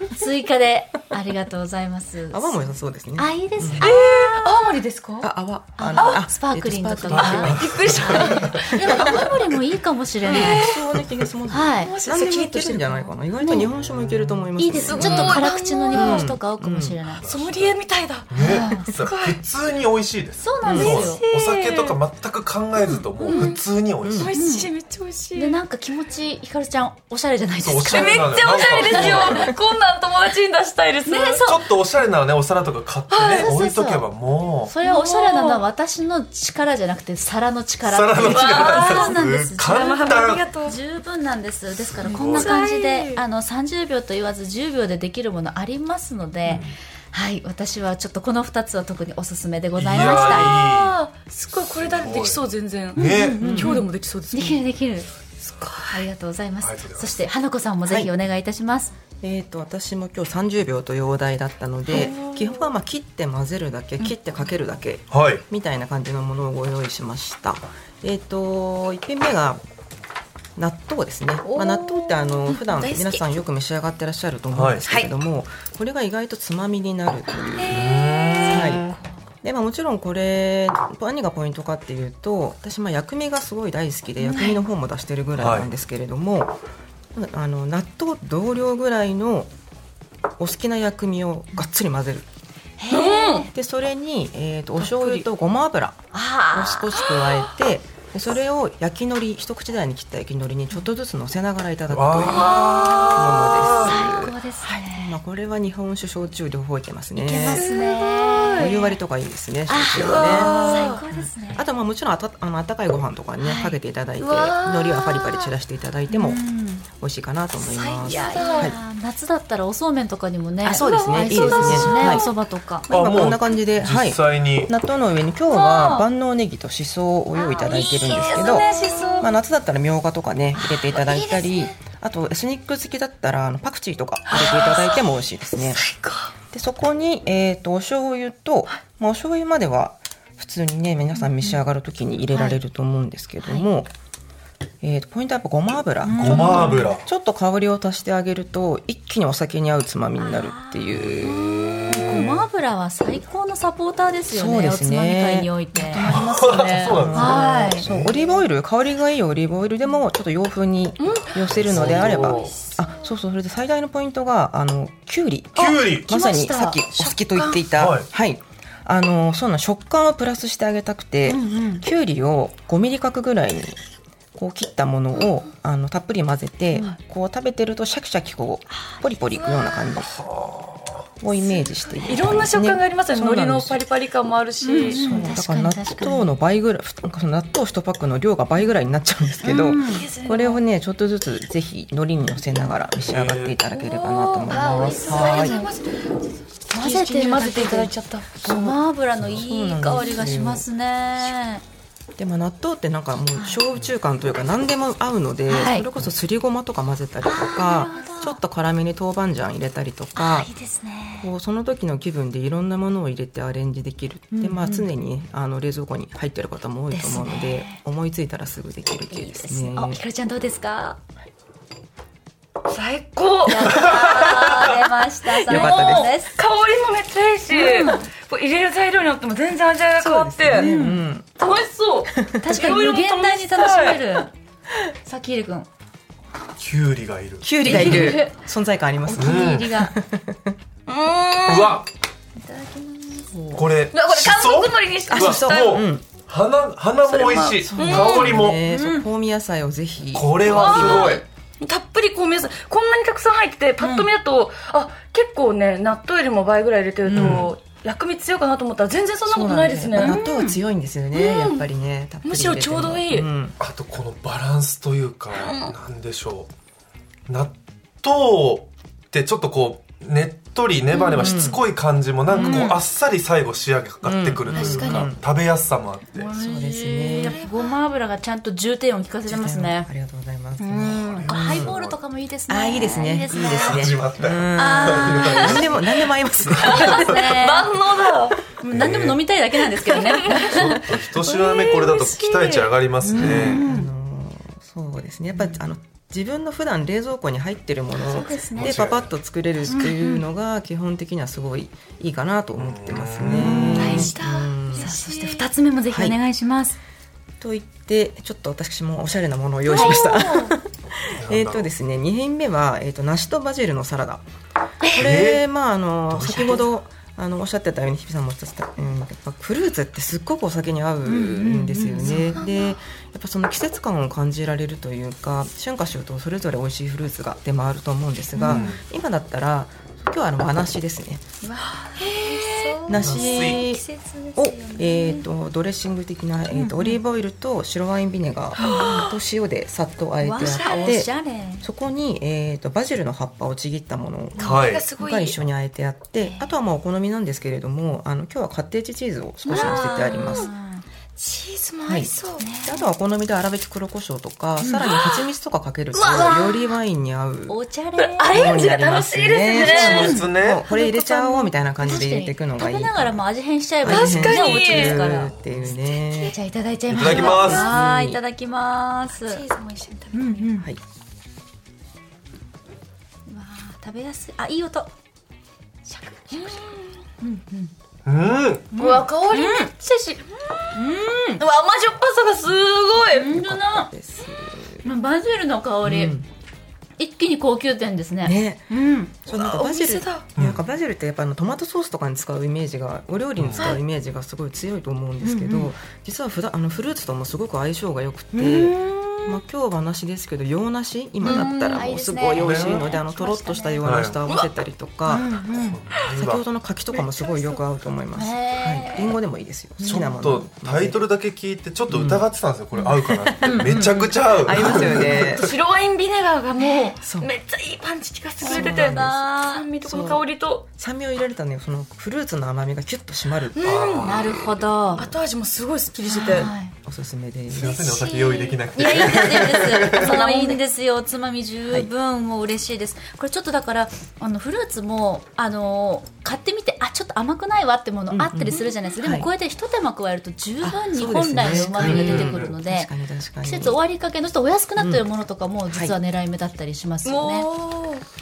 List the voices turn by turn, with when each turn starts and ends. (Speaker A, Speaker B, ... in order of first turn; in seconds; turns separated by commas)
Speaker A: 0.1-4.6, Speaker B: 2.3-3.9, Speaker C: 3.8-5.3, Speaker B: 5.2-9.2, Speaker A: 5.8-10.7, Speaker C: 6.0-6.2, Speaker D: 7.1-8.5, Speaker C: 7.1-9.3, Speaker C: 10.2-10.9, Speaker B: 10.3-17.0, Speaker A: 11.5-11.9, Speaker C: 11.8-13.7, Speaker D: 13.7-14.5, Speaker A: 14.6-17.2, Speaker C: 14.9-16.3, Speaker D: 17.2-17.8, Speaker C: 17.2-19.4, Speaker D: 18.3-24.3, Speaker A: 18.4-18.9, Speaker B: 18.7-19.0, Speaker A: 20.4-21.2, Speaker B: 20.6-21.0, Speaker C: 20.7-22.0, Speaker A: 22.8-23.5, Speaker C: 23.2-25.6, Speaker B: 24.0-24.3, Speaker A: 24.3-24.7, Speaker A: 25.4-29.5, Speaker D: 27.6-29.5, Speaker C: 27.8-31.6, Speaker B: 29.0-29.3, Speaker A: 31.1-31.5, Speaker D: 31.4-34.7, Speaker C: 33.1-33.5, Speaker A: 33.3-34.0, Speaker A: 34.6-39.9, Speaker C: 34.8-35.6, Speaker D: 37.9-40.5, Speaker C: 38.2-40.8, Speaker A: 40.6-50.5, Speaker D: 41.7-42.5, Speaker C: 42.0-43.2, Speaker D: 46.5-46.8, Speaker D: 49.8-50.9, Speaker C: 50.0-54.6, Speaker D: 51.7-52.4, Speaker D: 53.0-53.4, Speaker A: 53.0-55.1, Speaker B: 53.4-53.8, Speaker C: 55.4-56.0, Speaker A: 55.9-58.9, Speaker D: 56.6-57.3, Speaker B: 57.9-58.1, Speaker B: 59.2-69.6, Speaker C: 61.9-62.7, Speaker D: 65.1-65.4, Speaker B: 70.5-78.9, Speaker A: 71.4-72.3, Speaker C: 72.5-73.4, Speaker D: 74.5-74.8, Speaker C: 77.4-78.8, Speaker D: 77.7-78.9, Speaker B: 79.4-86.6, Speaker A: 84.2-84.6, Speaker D: 85.4-85.7, Speaker B: 87.1-89.5, Speaker B: 90.4-92.2, Speaker A: 92.8-93.5, Speaker C: 92.9-93.5, Speaker B: 93.5-96.0, Speaker C: 94.8-95.2, Speaker A: 96.1-97.0, Speaker B: 96.5-107.8, Speaker D: 101.9-104.0, Speaker C: 102.2-103.3, Speaker A: 102.3-103.2, Speaker A: 103.8-105.2, Speaker A: 107.2-108.9, Speaker C: 107.5-108.8, Speaker B: 108.5-116.4, Speaker A: 109.7-111.6, Speaker C: 109.9-111.0, Speaker A: 113.4-113.8, Speaker C: 114.2-115.5, Speaker A: 116.1-116.8, Speaker B: 116.9-118.8, Speaker C: 117.6-118.7, Speaker A: 118.0-123.3, Speaker C: 120.6-122.3, Speaker B: 120.6-122.3, Speaker D: 122.9-124.7, Speaker B: 122.9-135.8, Speaker C: 125.5-126.0, Speaker C: 127.3-129.3, Speaker C: 130.6-131.7, Speaker C: 134.3-135.0, Speaker C: 135.7-136.3, Speaker B: 136.5-143.9, Speaker A: 141.2-141.5, Speaker A: 142.3-142.6, Speaker A: 143.4-143.7, Speaker B: 144.8-152.4, Speaker A: 146.0-146.9, Speaker D: 146.1-147.0, Speaker A: 150.2-150.8, Speaker A: 151.8-157.8, Speaker B: 154.3-173.8, Speaker D: 156.0-158.1, Speaker C: 157.2-158.1, Speaker C: 161.0-162.9, Speaker D: 161.5-162.4, Speaker D: 165.6-166.1, Speaker A: 165.6-166.8, Speaker C: 167.0-167.7, Speaker D: 167.7-168.1, Speaker A: 171.2-171.8, Speaker B: 174.3-180.1, Speaker C: 179.3-180.0, Speaker D: 180.1-181.1, Speaker B: 181.2-183.8, Speaker C: 182.0-185.3, Speaker A: 184.6-186.3, Speaker B: 184.7-195.6, Speaker A: 189.4-190.0, Speaker C: 189.9-190.6, Speaker D: 192.9-193.6, Speaker C: 193.7-198.7, Speaker A: 194.5-195.7, Speaker A: 196.7-201.6, Speaker B: 199.3-200.7, Speaker B: 202.2-210.5, Speaker A: 203.3-203.6, Speaker A: 205.5-205.9, Speaker A: 207.2-208.4, Speaker A: 210.1-211.3, Speaker B: 211.2-220.0, Speaker A: 214.3-214.9, Speaker A: 216.9-217.8, Speaker A: 219.1-221.0, Speaker C: 222.7-230.7, Speaker A: 223.4-226.4, Speaker D: 223.7-224.6, Speaker B: 225.5-226.1, Speaker A: 227.5-228.1, Speaker B: 230.0-231.3, Speaker A: 230.6-231.1, Speaker C: 231.4-234.2, Speaker B: 232.1-232.6, Speaker A: 232.4-234.3, Speaker A: 235.0-235.7, Speaker D: 236.6-238.2, Speaker B: 237.4-240.6, Speaker A: 237.6-238.4, Speaker A: 239.0-239.9, Speaker D: 239.2-239.7, Speaker C: 240.9-241.8, Speaker D: 241.4-241.8, Speaker A: 242.3-243.4, Speaker B: 243.3-243.6, Speaker D: 243.5-248.6, Speaker C: 243.9-245.8, Speaker B: 245.1-246.0, Speaker C: 247.0-248.4, Speaker B: 247.6-251.2, Speaker A: 248.6-249.1, Speaker D: 250.1-251.2, Speaker C: 250.4-260.2, Speaker A: 253.8-254.1, Speaker A: 257.1-257.5, Speaker D: 257.1-257.5, Speaker B: 259.2-263.6, Speaker A: 260.0-260.6, Speaker C: 261.1-261.6, Speaker C: 262.2-263.3, Speaker D: 263.6-266.5, Speaker C: 265.3-265.7, Speaker D: 267.3-276.3, Speaker C: 270.9-271.5, Speaker B: 271.2-271.6, Speaker A: 272.3-272.8, Speaker B: 272.3-272.7, Speaker B: 274.0-275.2, Speaker C: 274.5-275.1, Speaker A: 276.1-279.9, Speaker B: 276.3-277.4, Speaker C: 277.0-277.7, Speaker B: 279.2-281.7, Speaker A: 280.6-283.9, Speaker D: 281.0-282.0, Speaker B: 282.5-287.1, Speaker D: 283.3-285.8, Speaker A: 284.5-285.8, Speaker D: 286.5-286.8, Speaker C: 286.6-288.4, Speaker A: 286.6-287.7, Speaker A: 288.6-290.9, Speaker D: 288.7-289.2, Speaker C: 289.9-292.7, Speaker D: 290.4-293.6, Speaker A: 293.0-293.9, Speaker B: 293.1-304.9, Speaker A: 298.1-298.7, Speaker D: 298.6-299.1, Speaker A: 299.6-300.2, Speaker D: 302.6-304.0, Speaker A: 303.2-304.1, Speaker C: 303.7-305.5, Speaker A: 304.7-306.8, Speaker B: 305.9-306.2, Speaker B: 307.4-314.2, Speaker C: 309.7-310.6, Speaker A: 309.7-310.0, Speaker D: 311.1-311.7, Speaker B: 314.9-331.2, Speaker D: 314.9-315.4, Speaker D: 316.1-316.7, Speaker A: 321.0-322.4, Speaker C: 322.3-322.7, Speaker A: 328.4-328.7, Speaker D: 328.4-328.8, Speaker A: 331.4-333.4, Speaker C: 331.6-335.2, Speaker B: 332.9-350.5, Speaker D: 332.9-333.6, Speaker A: 336.5-337.0, Speaker A: 338.6-339.1, Speaker C: 338.6-339.1, Speaker A: 340.2-341.6, Speaker C: 340.4-341.0, Speaker C: 344.4-345.4, Speaker D: 344.4-344.9, Speaker A: 346.2-346.5, Speaker C: 349.4-350.5, Speaker A: 349.5-350.8, Speaker C: 351.2-352.5, Speaker B: 351.8-357.6, Speaker A: 352.4-352.9, Speaker C: 354.6-355.3, Speaker C: 355.9-356.8, Speaker A: 356.1-356.4, Speaker A: 357.5-358.3, Speaker C: 358.0-360.2, Speaker B: 358.3-363.2, Speaker A: 359.6-365.3, Speaker D: 359.7-360.6, Speaker B: 363.8-366.3, Speaker C: 363.9-365.1, Speaker C: 366.0-366.3, Speaker A: 366.2-369.4, Speaker D: 366.9-367.7, Speaker B: 366.9-368.2, Speaker C: 367.0-367.5, Speaker C: 369.2-370.4, Speaker A: 370.1-370.7, Speaker A: 373.3-374.9, Speaker A: 375.9-376.6, Speaker C: 376.2-377.0, Speaker A: 377.2-377.7, Speaker D: 378.0-378.7, Speaker A: 378.7-379.7, Speaker C: 378.8-380.7, Speaker A: 380.7-381.4, Speaker C: 381.4-383.3, Speaker A: 383.1-383.9, Speaker B: 383.3-384.9, Speaker A: 384.8-386.1, Speaker B: 385.8-386.3, Speaker A: 387.0-389.1, Speaker B: 388.2-388.7, Speaker B: 389.2-405.4, Speaker C: 389.3-390.3, Speaker D: 390.4-390.6, Speaker D: 393.4-393.7, Speaker A: 395.2-395.7, Speaker A: 398.3-399.4, Speaker C: 401.2-401.9, Speaker A: 401.2-403.8, Speaker D: 402.3-402.8, Speaker D: 403.8-404.2, Speaker A: 405.1-405.8, Speaker D: 405.5-406.4, Speaker B: 406.1-411.0, Speaker C: 406.9-407.6, Speaker A: 408.1-409.1, Speaker A: 409.8-410.1, Speaker D: 409.8-415.5, Speaker B: 411.9-412.2, Speaker B: 412.9-415.5, Speaker A: 413.4-414.0, Speaker C: 414.8-420.6, Speaker A: 416.6-416.9, Speaker B: 417.0-417.3, Speaker B: 418.4-419.2, Speaker A: 418.4-419.6, Speaker B: 419.8-420.2, Speaker B: 420.8-423.8, Speaker C: 423.5-424.4, Speaker D: 423.6-424.6, Speaker A: 424.0-425.1, Speaker C: 425.0-426.5, Speaker A: 426.1-426.7, Speaker B: 426.8-427.8, Speaker D: 427.5-430.2, Speaker C: 427.6-430.6, Speaker A: 428.8-442.9, Speaker B: 438.1-439.3, Speaker B: 440.6-443.8, Speaker D: 441.7-442.5, Speaker A: 443.4-447.5, Speaker B: 444.8-445.0, Speaker C: 447.0-448.0